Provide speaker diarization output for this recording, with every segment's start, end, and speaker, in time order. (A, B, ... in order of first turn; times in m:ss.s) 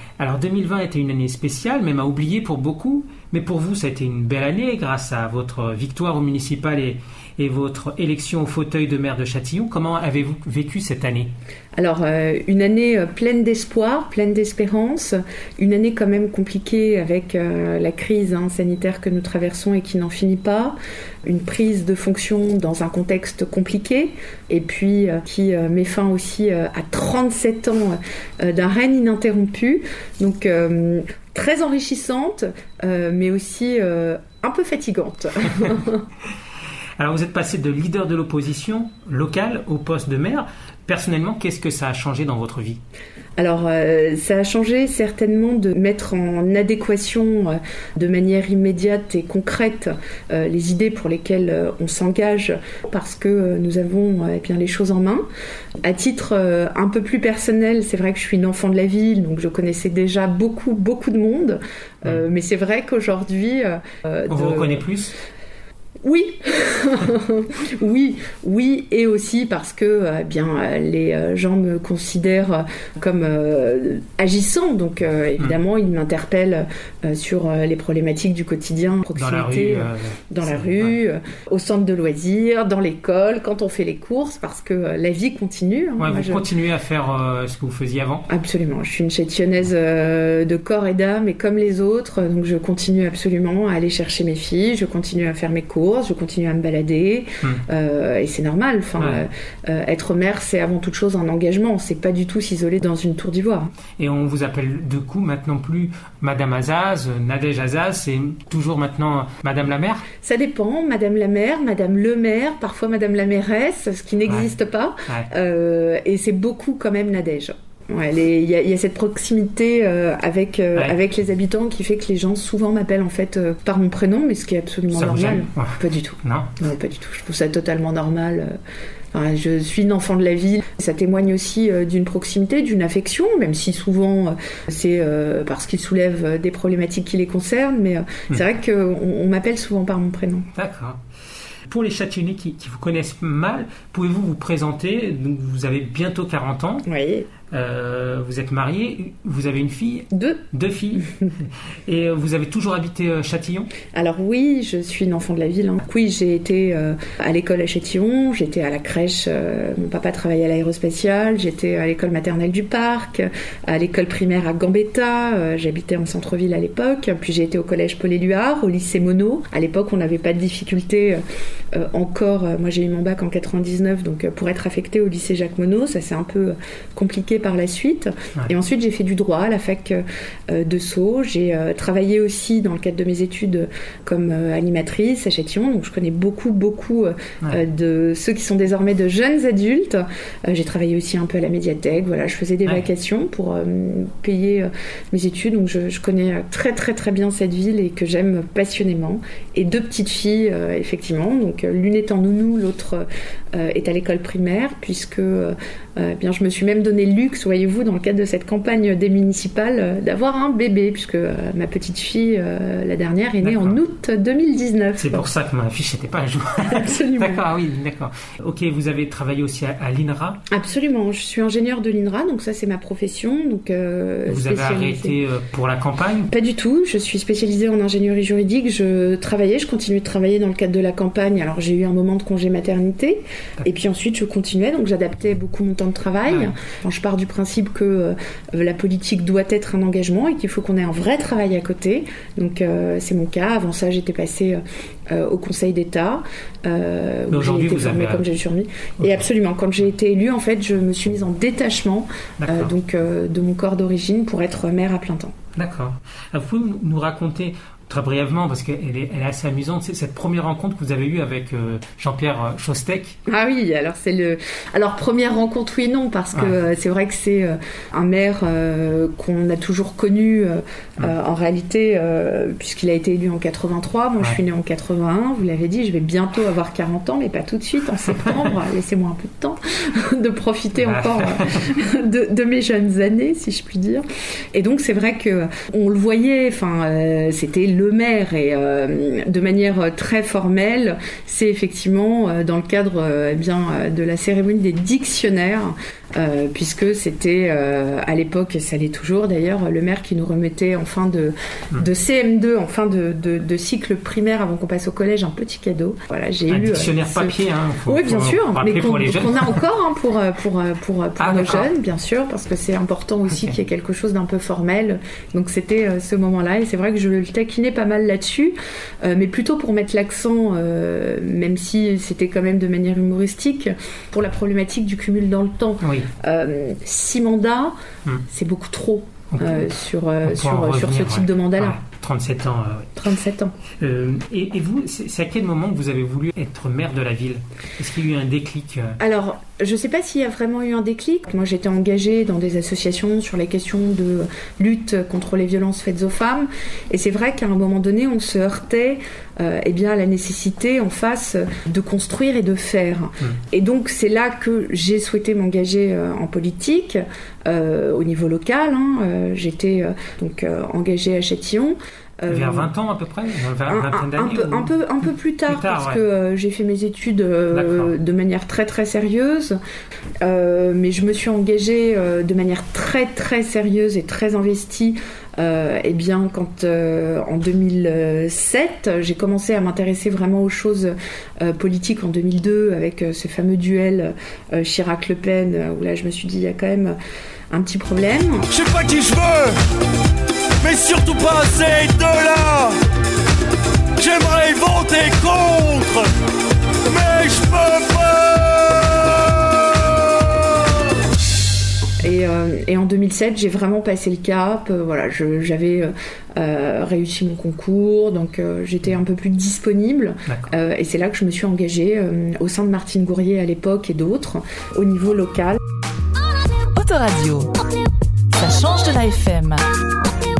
0:00.2-0:11.3 A
0:11.8-0:36.0 B
0:37.0-0:42.8 A
0:43.4-0:55.2 B
0:55.8-1:04.9 B
1:04.3-1:05.1 A
1:06.0-1:26.4 B
1:19.2-1:21.0 A
1:26.0-1:28.3 A
1:28.3-1:43.7 B
1:39.0-1:39.2 A
1:44.0-1:50.1 A
1:50.2-2:08.6 B
2:04.9-2:06.5 A
2:09.1-2:20.5 B
2:20.6-2:21.0 A
2:21.7-2:26.8 A
2:26.9-2:27.3 B
2:27.5-2:33.7 A
2:30.1-2:30.4 B
2:33.9-2:51.2 B
2:51.7-3:35.2 B
3:33.4-3:33.8 A
3:35.0-3:40.4 A
3:36.6-3:37.4 B
3:40.5-3:45.2 B
3:44.3-3:46.3 A
3:46.3-4:15.3 B
3:56.3-3:56.5 A
4:07.3-4:08.3 A
4:12.4-4:12.7 A
4:15.6-4:23.2 A
4:23.3-5:27.8 B
4:40.8-4:41.6 A
5:06.5-5:09.6 A
5:11.2-5:11.7 A
5:13.3-5:13.6 A
5:25.8-5:26.1 A
5:28.3-5:31.8 B
5:29.3-5:29.7 A
5:30.2-5:32.9 A
5:33.0-5:33.5 B
5:33.8-5:39.0 A
5:39.0-6:02.7 B
6:02.3-6:04.7 A
6:03.7-6:09.6 B
6:05.5-6:06.0 A
6:07.5-6:07.9 A
6:10.2-6:27.0 B
6:27.5-6:28.5 B
6:28.6-6:29.5 C
6:30.6-6:32.7 C
6:34.1-6:35.9 C
6:36.9-6:38.9 C
6:42.0-6:55.6 B
6:56.8-6:57.5 D
6:58.4-6:59.6 D